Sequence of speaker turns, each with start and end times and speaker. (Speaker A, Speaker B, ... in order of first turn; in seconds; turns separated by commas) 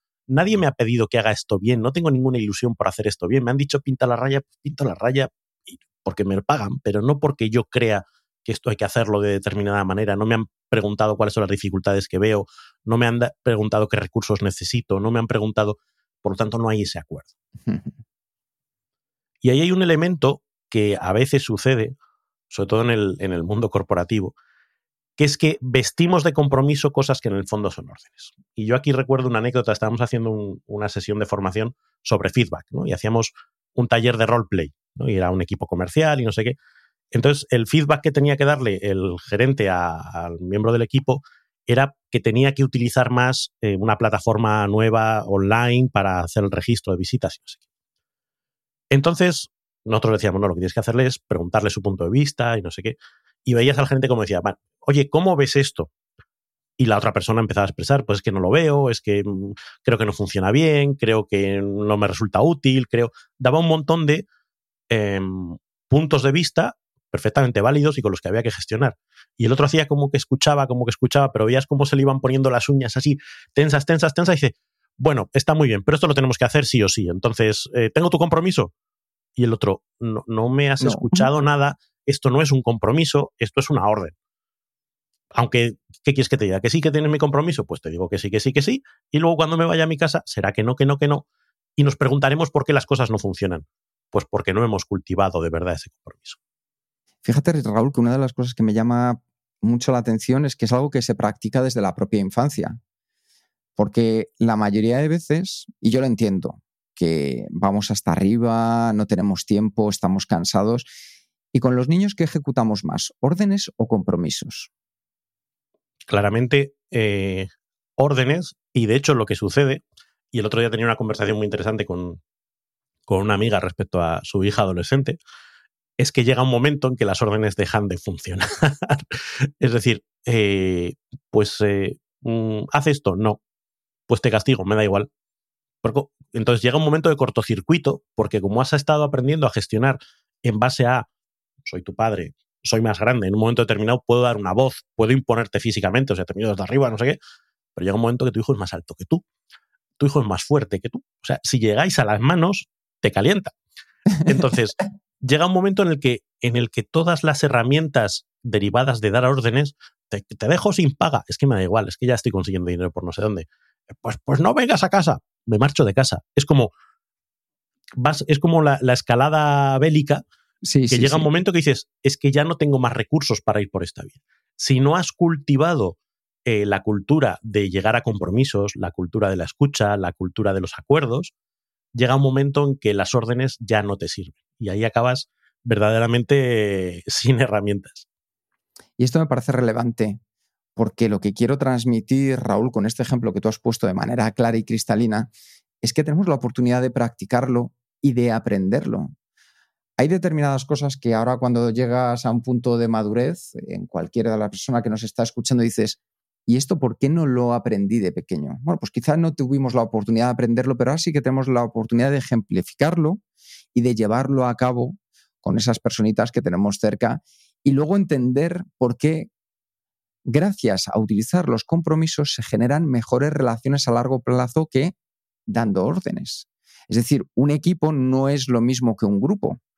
Speaker A: 0.3-17.3, Speaker B: 17.6-17.9, Speaker A: 19.4-21.9, Speaker A: 22.5-24.3, Speaker A: 25.2-36.5, Speaker A: 37.1-47.6, Speaker A: 48.9-55.9, Speaker A: 56.8-64.2, Speaker A: 64.9-78.7, Speaker A: 79.3-84.1, Speaker B: 80.8-81.3, Speaker A: 85.3-91.2, Speaker A: 91.8-96.4, Speaker B: 97.2-102.8, Speaker B: 103.8-110.9, Speaker B: 111.5-114.7, Speaker A: 116.1-122.2, Speaker A: 123.1-125.2, Speaker A: 126.0-129.0, Speaker A: 129.6-133.4, Speaker A: 134.1-135.1, Speaker A: 135.8-141.1, Speaker A: 141.6-147.2, Speaker A: 147.7-149.2, Speaker A: 150.0-153.5, Speaker A: 154.2-166.7, Speaker A: 168.0-170.2, Speaker B: 170.6-171.3, Speaker A: 170.9-181.3, Speaker A: 181.9-188.1, Speaker B: 189.0-190.2, Speaker B: 190.8-195.3, Speaker B: 195.8-199.1, Speaker B: 200.0-213.2, Speaker B: 213.7-219.3, Speaker B: 220.2-224.9, Speaker B: 225.5-229.6